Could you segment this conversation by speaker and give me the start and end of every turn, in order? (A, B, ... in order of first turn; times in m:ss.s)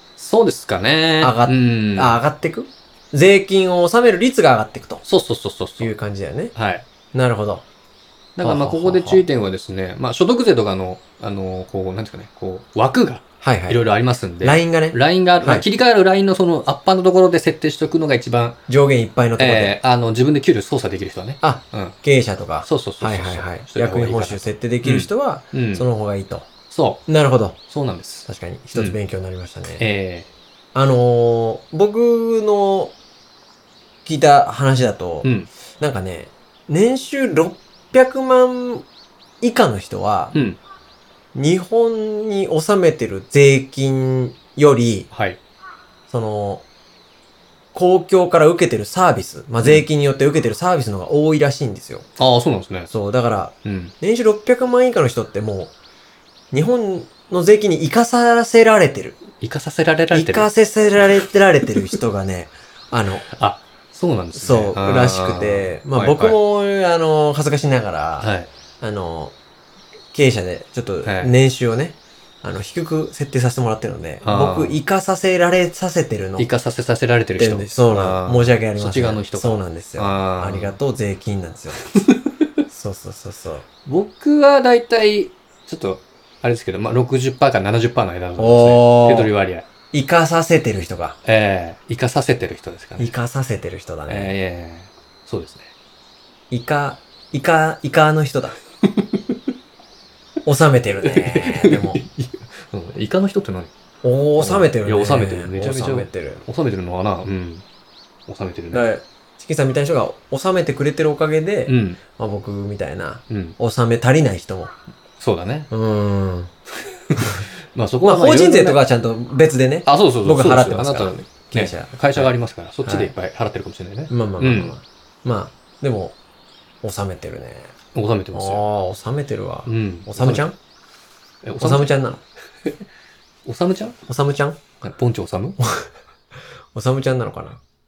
0:00.2-0:02.2 A
0:01.2-0:05.0 B
0:05.0-0:05.9 A
0:05.8-0:06.5 B
0:06.6-0:06.9 A
0:07.1-0:07.7 B
0:08.4-0:18.6 A
0:08.4-0:09.2 B
0:13.4-0:13.8 B
0:14.4-0:15.7 B
0:18.7-0:19.8 B
0:19.4-0:22.0 A
0:21.4-0:26.5 B
0:22.6-0:25.9 A
0:26.7-0:27.0 A
0:27.1-0:27.6 B
0:27.7-0:29.0 A
0:28.3-0:29.8 B
0:29.8-0:30.3 A
0:30.7-0:33.0 B
0:34.0-0:35.3 B
0:35.2-0:35.5 A
0:35.8-0:38.9 B
0:39.4-0:40.4 B
0:40.3-0:40.6 A
0:41.3-0:45.1 B
0:45.1-0:45.4 A
0:46.1-0:46.6 B
0:47.7-0:52.1 B
0:52.2-0:52.9 A
0:52.9-0:55.8 B
0:53.6-0:53.9 A
0:56.5-0:59.2 B
0:59.4-1:00.5 A
1:00.1-1:03.3 B
1:03.3-1:06.4 A
1:04.4-1:09.4 B
1:08.2-1:08.5 A
1:10.1-1:16.5 B
1:11.0-1:11.4 A
1:14.2-1:14.8 A
1:16.4-1:20.8 A
1:17.4-1:21.8 B
1:22.7-1:23.6 B
1:23.9-1:29.7 A
1:28.4-1:29.3 B
1:29.9-1:31.2 B
1:31.2-1:33.1 A
1:33.0-1:34.3 B
1:34.1-1:35.7 A
1:36.5-1:38.6 B
1:38.9-1:39.3 A
1:40.4-1:42.0 B
1:41.0-1:43.7 A
1:44.0-1:46.4 B
1:44.4-1:47.6 A
1:48.3-1:48.8 A
1:48.7-1:54.7 B
1:51.7-1:52.0 A
1:53.3-1:53.6 A
1:55.2-1:55.7 A
1:55.7-1:56.5 B
1:57.1-1:58.8 A
1:57.2-1:57.5 B
1:58.0-2:02.3 B
1:59.9-2:04.8 A
2:02.8-2:03.1 B
2:04.1-2:06.2 B
2:06.8-2:07.7 B
2:08.0-2:08.6 A
2:08.3-2:10.6 B
2:09.7-2:10.5 A
2:11.4-2:11.9 A
2:11.6-2:12.2 B
2:13.5-2:14.0 A
2:14.1-2:14.6 B
2:14.8-2:15.6 A
2:16.7-2:17.6 B